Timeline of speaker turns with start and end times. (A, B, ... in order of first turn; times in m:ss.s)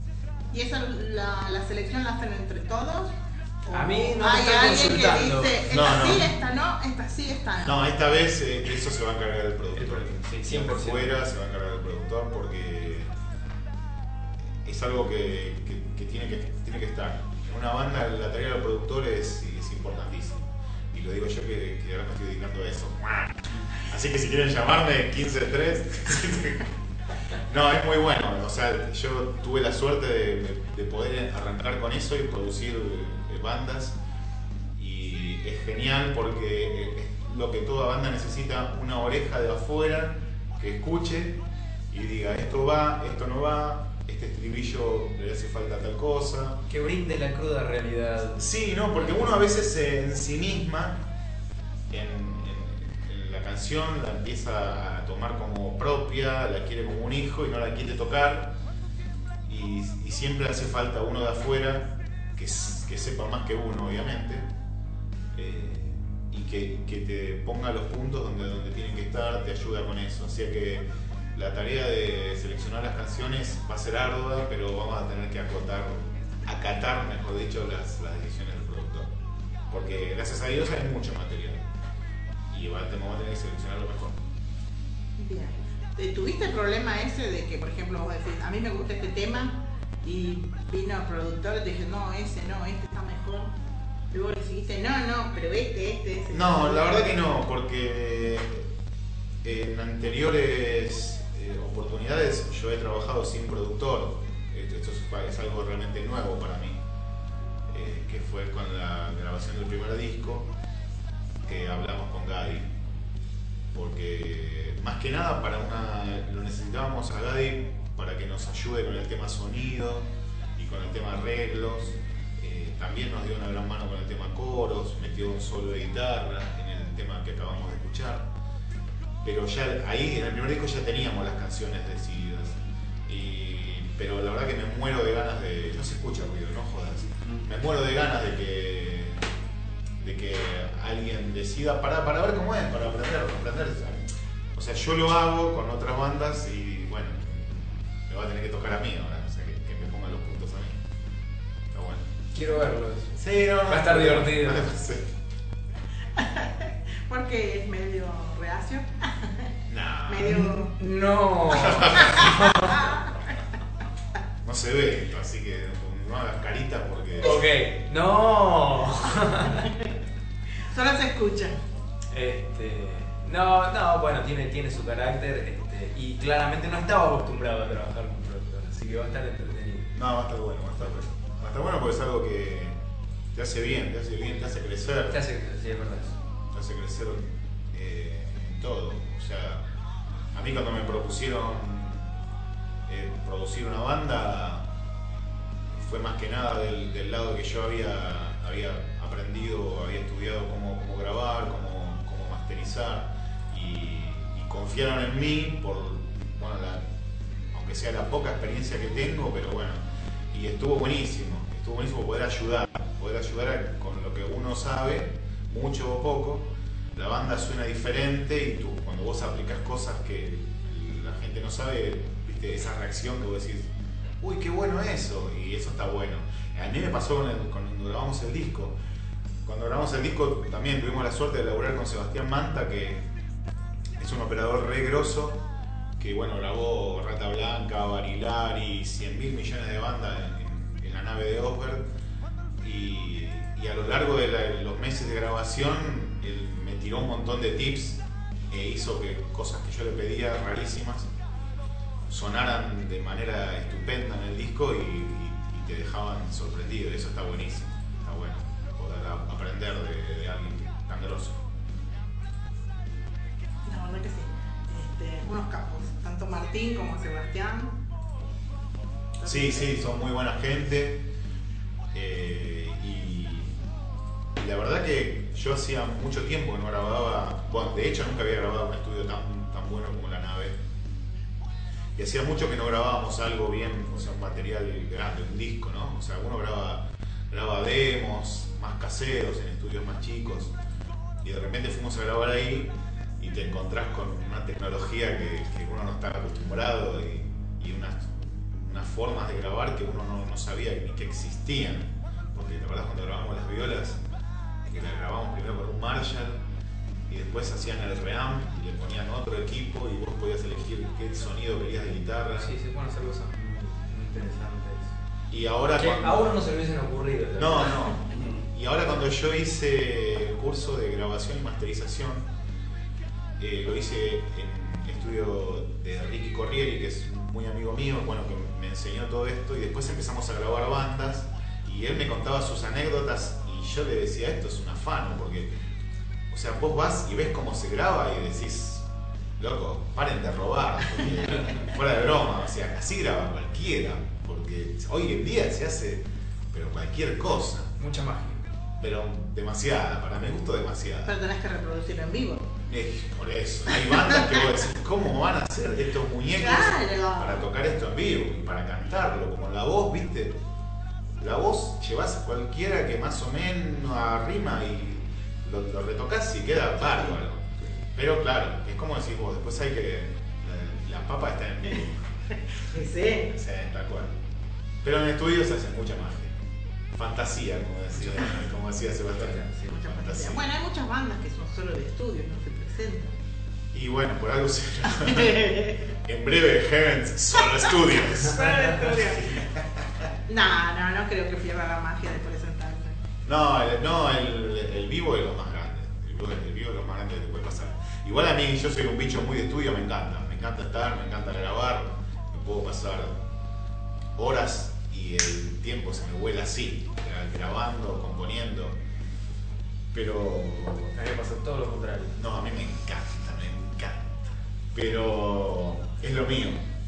0:00.5-0:07.8 A
0:03.7-0:05.7 B
0:05.7-0:06.3 C
0:07.6-0:13.1 C
0:09.7-0:11.2 B
0:14.6-0:26.7 C
0:27.5-0:34.0 C
0:34.8-0:41.4 C
0:41.9-0:46.6 C
0:46.7-0:48.5 B
0:48.4-0:51.0 C
0:51.9-0:58.6 C
0:59.5-1:04.5 C
1:05.3-1:19.1 C
1:19.7-1:21.7 C
1:22.5-1:24.2 C
1:25.2-1:33.5 A
1:34.1-1:37.0 A
1:36.3-1:38.7 C
1:39.4-1:46.8 C
1:47.7-1:50.5 C
1:51.4-1:52.8 C
1:53.7-2:08.3 C
2:09.2-2:19.2 C
2:20.0-2:30.8 C
2:31.7-2:32.1 C
2:32.3-2:34.7 B
2:33.2-2:35.1 C
2:36.2-2:39.5 A
2:39.7-2:40.3 C
2:40.1-2:40.7 A
2:40.2-2:42.9 B
2:41.5-2:42.4 C
2:42.8-2:43.1 A
2:44.4-2:47.4 C
2:47.2-2:49.7 B
2:50.7-2:51.6 A
2:52.1-2:59.9 B
2:59.9-3:02.8 C
3:03.3-3:05.2 C
3:05.1-3:06.2 B
3:06.5-3:09.6 C
3:10.3-3:12.1 C
3:12.9-3:14.7 C
3:15.7-3:26.8 C
3:27.5-3:48.8 C
3:49.4-3:53.0 C
3:54.0-3:55.4 C
3:56.0-4:01.9 C
4:02.6-4:11.1 C
4:12.1-4:21.4 C
4:23.7-4:27.8 A
4:29.2-4:29.7 A
4:29.2-4:31.0 C
4:31.9-4:33.6 C
4:34.4-4:40.6 C
4:42.0-4:50.5 C
4:51.2-5:04.0 C
5:04.6-5:06.4 C
5:07.1-5:12.5 C
5:12.4-5:14.9 B
5:15.3-5:16.5 C
5:15.8-5:17.9 B
5:17.4-5:22.3 C
5:23.4-5:35.5 C
5:36.3-5:38.9 C
5:39.4-5:47.7 C
5:47.8-5:48.4 B
5:48.8-5:51.2 C
5:51.1-5:52.5 A
5:52.7-6:00.4 C
5:56.4-5:57.5 A
6:01.2-6:12.1 C
6:12.6-6:13.3 A
6:13.3-6:14.2 C
6:14.8-6:16.4 C
6:16.9-6:20.5 C
6:18.1-6:18.3 B
6:19.1-6:19.8 B
6:19.7-6:23.1 A
6:23.7-6:28.4 C
6:25.1-6:25.8 A
6:28.3-6:29.4 A
6:28.4-6:29.0 B
6:29.2-6:30.1 C
6:30.3-6:32.9 A
6:33.2-6:43.2 C
6:44.2-6:48.8 C
6:49.9-6:50.9 C
6:50.9-6:52.2 B
6:52.2-6:54.2 C
6:54.7-6:56.6 C